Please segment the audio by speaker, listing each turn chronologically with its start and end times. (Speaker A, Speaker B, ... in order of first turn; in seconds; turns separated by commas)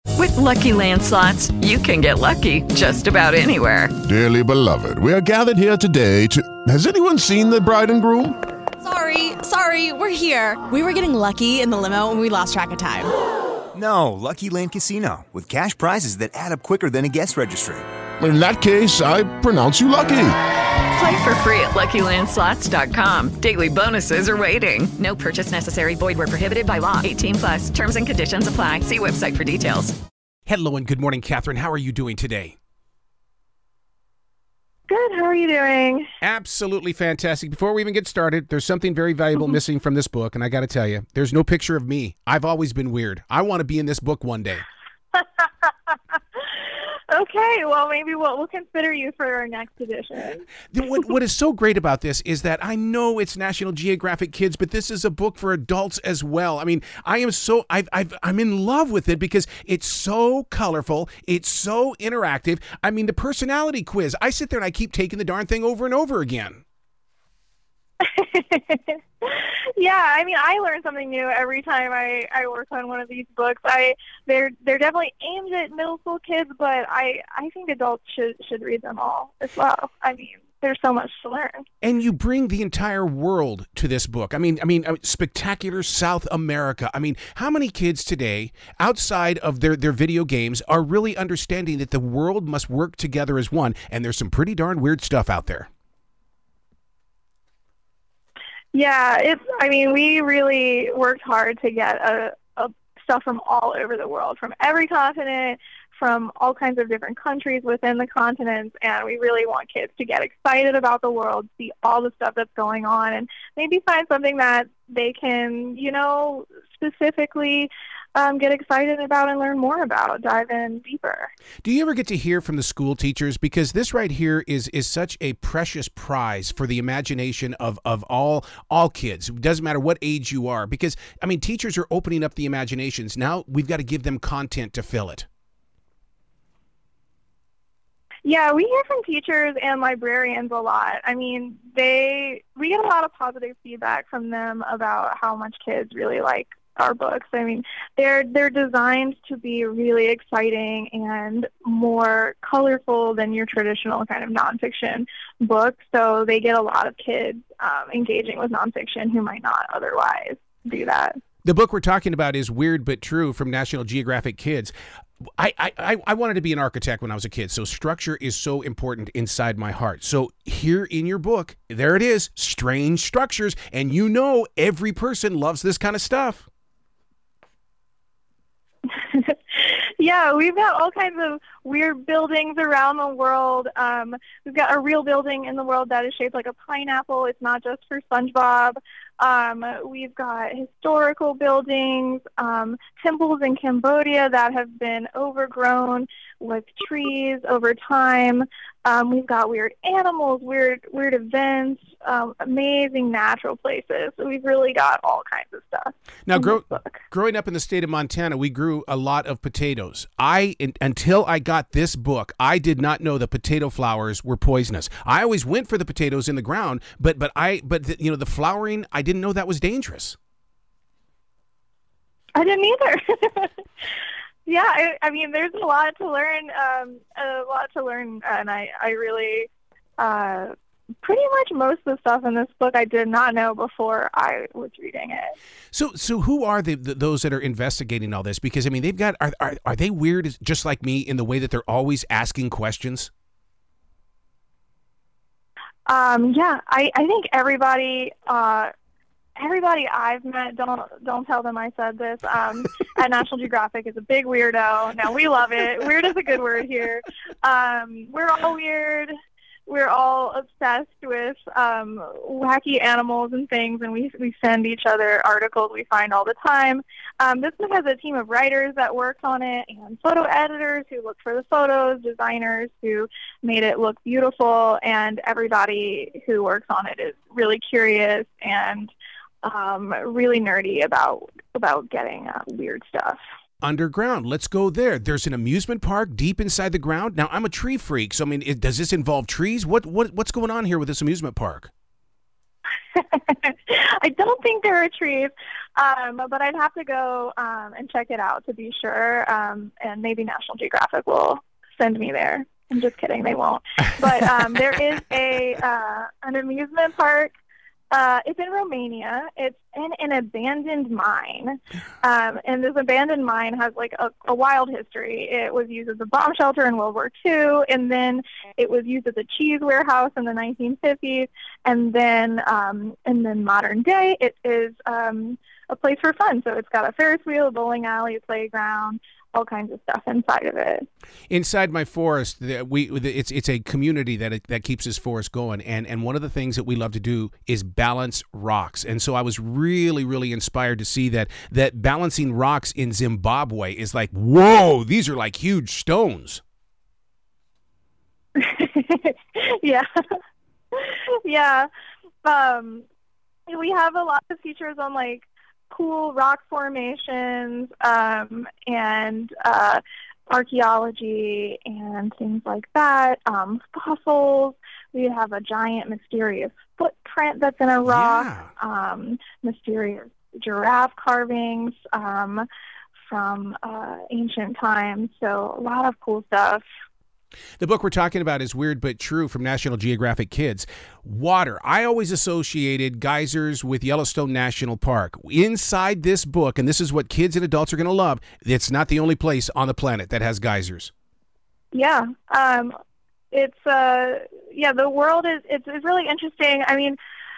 Speaker A: 0.1-3.9, Speaker B: 4.0-8.4, Speaker C: 8.8-13.1, Speaker D: 13.8-17.8, Speaker B: 18.2-20.3, Speaker A: 20.9-30.0, Speaker E: 30.5-32.5, Speaker F: 34.9-36.1, Speaker E: 36.2-44.6, Speaker F: 45.1-46.4, Speaker F: 47.1-50.5, Speaker E: 50.7-66.6, Speaker F: 68.0-81.6, Speaker E: 81.8-95.7, Speaker F: 98.7-121.3, Speaker E: 121.6-135.2, Speaker F: 138.2-161.2, Speaker E: 161.4-164.7, Speaker E: 165.4-176.5, Speaker F: 178.9-207.0, Speaker E: 206.3-220.2, Speaker F: 222.3-223.6, Speaker F: 224.5-230.5, Speaker F: 231.0-235.3, Speaker E: 235.7-243.1, Speaker F: 245.9-248.7, Speaker F: 249.4-259.1, Speaker F: 259.7-278.9, Speaker F: 279.4-283.2, Speaker E: 283.6-291.7, Speaker F: 292.9-307.3, Speaker F: 307.9-330.9, Speaker E: 331.3-346.4, Speaker F: 348.4-349.9, Speaker F: 350.7-351.7, Speaker F: 352.2-352.9, Speaker F: 353.5-372.5, Speaker E: 367.9-368.5, Speaker F: 373.1-376.6, Speaker E: 377.6-390.9, Speaker F: 391.7-392.7, Speaker F: 393.3-397.0